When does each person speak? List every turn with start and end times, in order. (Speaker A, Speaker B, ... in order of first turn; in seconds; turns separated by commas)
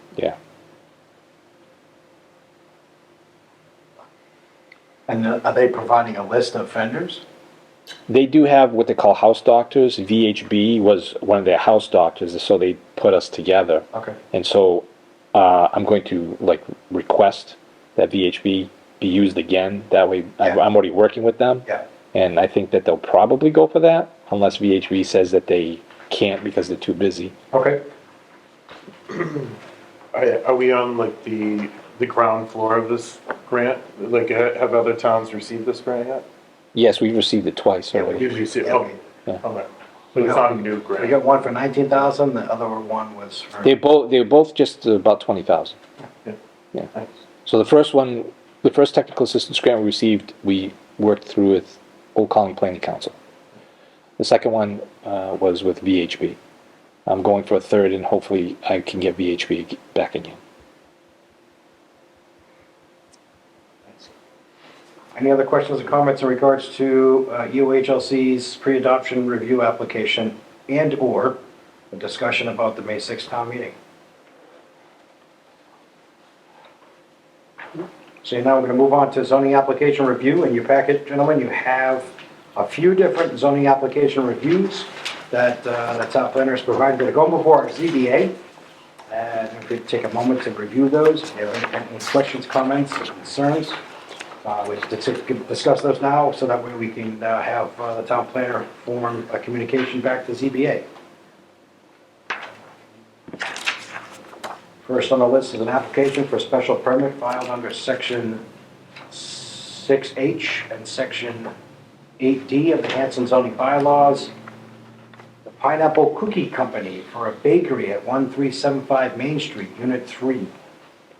Speaker A: 5.1-7.2, Speaker B: 8.1-27.3, Speaker A: 27.5-27.8, Speaker C: 29.1-29.5, Speaker C: 30.1-36.2, Speaker B: 36.7-38.3, Speaker A: 37.9-39.0, Speaker C: 38.1-41.1, Speaker A: 40.2-43.7, Speaker B: 43.6-45.8, Speaker B: 47.4-53.1, Speaker B: 54.2-56.4, Speaker B: 57.0-60.4, Speaker A: 65.1-71.4, Speaker A: 71.9-73.7, Speaker A: 78.2-88.4, Speaker A: 89.1-93.8, Speaker A: 94.4-100.8, Speaker A: 104.8-108.4, Speaker A: 109.1-111.5, Speaker A: 112.2-114.3, Speaker A: 115.4-120.5